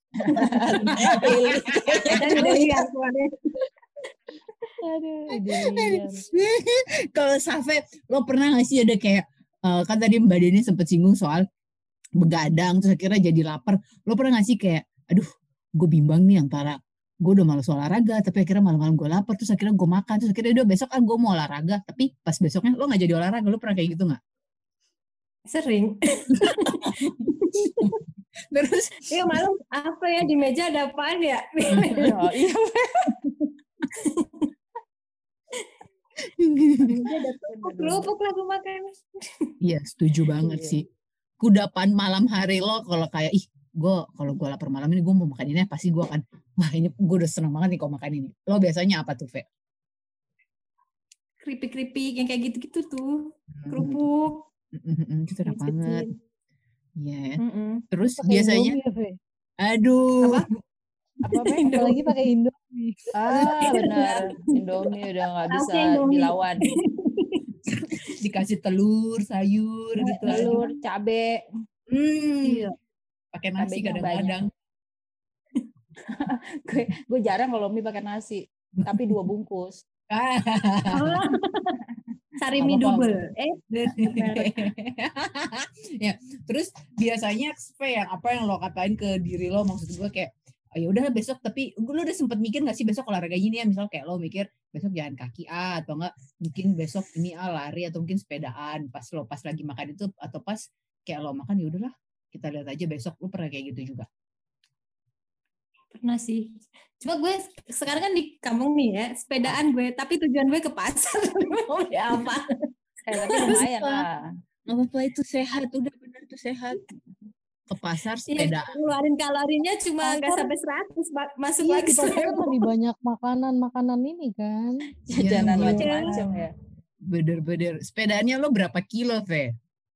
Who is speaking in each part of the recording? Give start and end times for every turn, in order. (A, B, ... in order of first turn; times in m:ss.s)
0:00.2-0:02.7 A
0:00.8-0:02.6 B
0:02.1-0:03.3 C
0:04.8-0:06.2 D
0:05.3-0:11.4 B
0:12.2-0:24.2 B
0:25.5-0:27.9 C
0:26.8-0:28.0 B
0:28.5-0:29.4 B
0:29.1-0:32.1 C
0:31.7-0:32.1 B
0:32.0-0:33.1 A
0:33.2-0:34.5 C
0:36.2-0:37.0 B
0:36.9-0:39.5 C
0:37.6-0:38.1 A
0:39.6-0:40.8 B
0:40.4-0:40.7 A
0:41.4-0:49.5 B
0:51.4-0:54.4 C
0:53.6-0:54.1 B
0:54.7-0:56.1 B
0:55.4-0:56.1 C
0:57.0-0:58.8 B
0:57.4-0:57.8 C
0:58.2-0:59.2 D
0:59.6-1:00.5 B
1:00.2-1:00.5 C
1:01.2-1:01.6 A
1:01.2-1:02.2 C
1:01.7-1:03.1 D
1:03.1-1:06.6 A
1:03.3-1:05.0 C
1:05.5-1:07.4 C
1:07.7-1:10.5 B
1:10.1-1:11.3 A
1:10.3-1:10.7 C
1:11.9-1:12.7 B
1:12.4-1:12.7 C
1:13.3-1:14.5 B
1:13.6-1:14.4 A
1:16.1-1:19.8 A
1:18.8-1:19.2 B
1:20.1-1:21.2 B
1:20.9-1:21.8 C
1:22.4-1:24.5 C
1:22.6-1:23.2 B
1:23.8-1:44.1 B
1:45.9-1:52.5 C
1:53.1-1:54.0 A
1:53.2-1:53.6 C
1:53.4-1:54.0 B
1:54.7-1:56.8 B
1:57.7-1:58.8 B
1:58.3-2:02.6 C
2:00.0-2:00.5 D
2:01.6-2:04.8 D
2:05.1-2:06.5 A
2:05.1-2:05.9 B
2:05.5-2:06.4 D
2:05.7-2:06.2 C
2:07.0-2:09.5 B